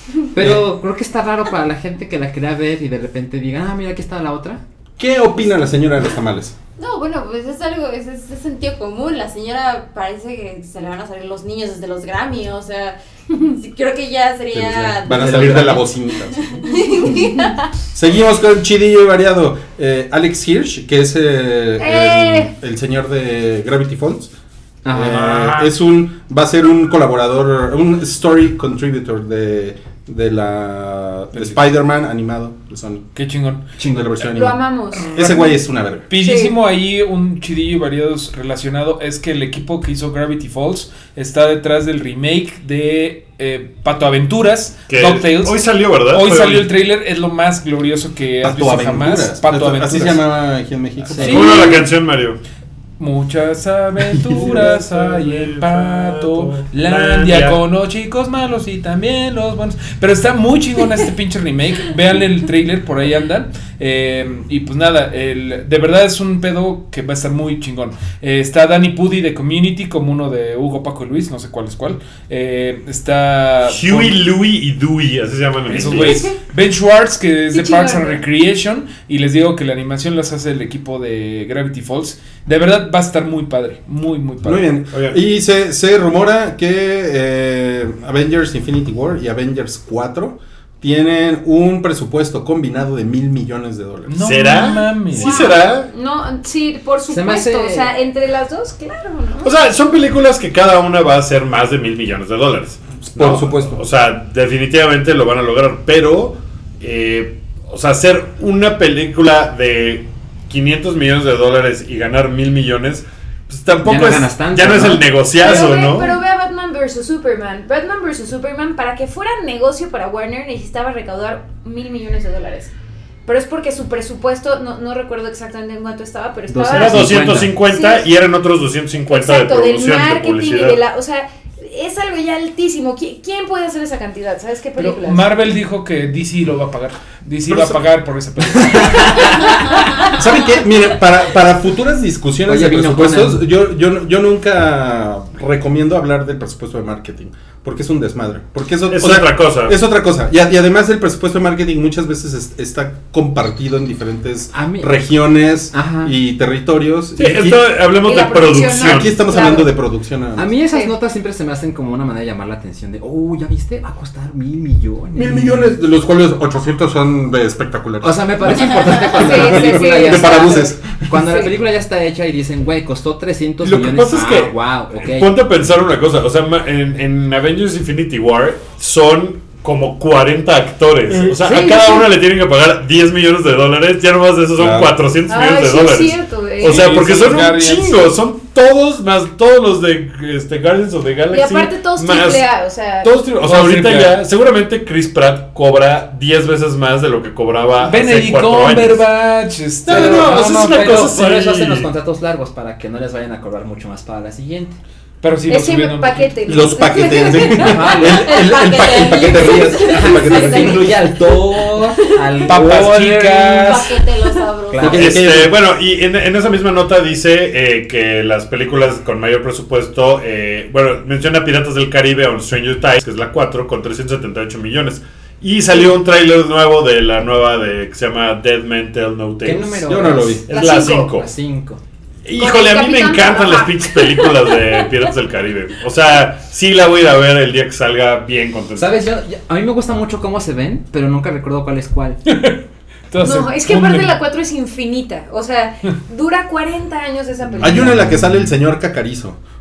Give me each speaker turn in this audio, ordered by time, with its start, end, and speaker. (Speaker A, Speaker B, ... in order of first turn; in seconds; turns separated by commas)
Speaker A: 0.3-4.6, Speaker B: 5.0-6.5, Speaker C: 6.8-15.8, Speaker B: 14.5-16.5, Speaker A: 15.1-15.9, Speaker C: 16.4-17.7, Speaker D: 17.0-17.4, Speaker B: 17.9-24.3, Speaker D: 21.8-22.5, Speaker A: 24.8-25.5, Speaker B: 24.9-33.0, Speaker E: 31.3-31.6, Speaker E: 33.1-33.6, Speaker A: 33.8-34.2, Speaker B: 33.8-36.1, Speaker D: 34.2-35.3, Speaker E: 35.0-35.5, Speaker E: 36.1-50.2, Speaker D: 36.1-36.5, Speaker F: 44.9-46.7, Speaker B: 48.4-51.5, Speaker A: 51.1-51.6, Speaker E: 51.2-51.8, Speaker F: 51.2-52.4, Speaker E: 53.0-74.2, Speaker B: 54.3-54.7, Speaker F: 54.3-57.6, Speaker F: 73.7-76.3, Speaker E: 75.7-84.7, Speaker D: 75.7-76.3, Speaker D: 77.5-78.2, Speaker B: 84.4-94.2, Speaker F: 84.9-85.2, Speaker E: 94.1-95.4, Speaker F: 94.2-95.9, Speaker D: 95.1-99.5, Speaker A: 97.1-97.9, Speaker F: 99.4-116.2, Speaker B: 103.0-103.8, Speaker A: 113.7-115.1, Speaker D: 115.3-122.7, Speaker D: 123.2-128.1, Speaker A: 126.5-127.6, Speaker F: 126.7-130.8, Speaker D: 129.1-135.3, Speaker E: 134.8-139.3, Speaker B: 137.4-137.8, Speaker B: 138.4-157.6, Speaker A: 142.4-143.4, Speaker F: 148.9-149.8, Speaker A: 154.5-155.1, Speaker A: 155.7-156.1, Speaker F: 157.2-159.2, Speaker D: 158.0-159.7, Speaker B: 158.6-160.5, Speaker A: 160.3-165.7, Speaker B: 165.1-171.0, Speaker A: 168.0-175.3, Speaker D: 169.1-171.5, Speaker F: 173.6-192.5, Speaker D: 181.4-182.1, Speaker B: 184.6-184.9, Speaker D: 185.3-187.4, Speaker E: 186.6-188.2, Speaker D: 191.3-193.1, Speaker F: 193.0-199.1, Speaker E: 193.4-194.1, Speaker E: 197.8-201.1, Speaker F: 199.8-201.9, Speaker A: 199.9-204.8, Speaker E: 205.2-206.8, Speaker D: 205.5-208.5, Speaker B: 206.4-211.6, Speaker A: 207.5-213.8, Speaker C: 208.2-210.7, Speaker E: 212.4-213.9, Speaker C: 213.5-215.1, Speaker A: 214.7-215.4, Speaker B: 214.7-215.5, Speaker F: 214.8-229.8, Speaker A: 229.4-231.8, Speaker B: 229.8-230.4, Speaker D: 230.5-231.1, Speaker F: 230.5-231.2, Speaker F: 232.2-239.0, Speaker D: 232.3-234.9, Speaker A: 238.7-242.2, Speaker E: 242.2-244.2, Speaker D: 243.2-248.0, Speaker A: 247.6-248.3, Speaker B: 247.6-249.4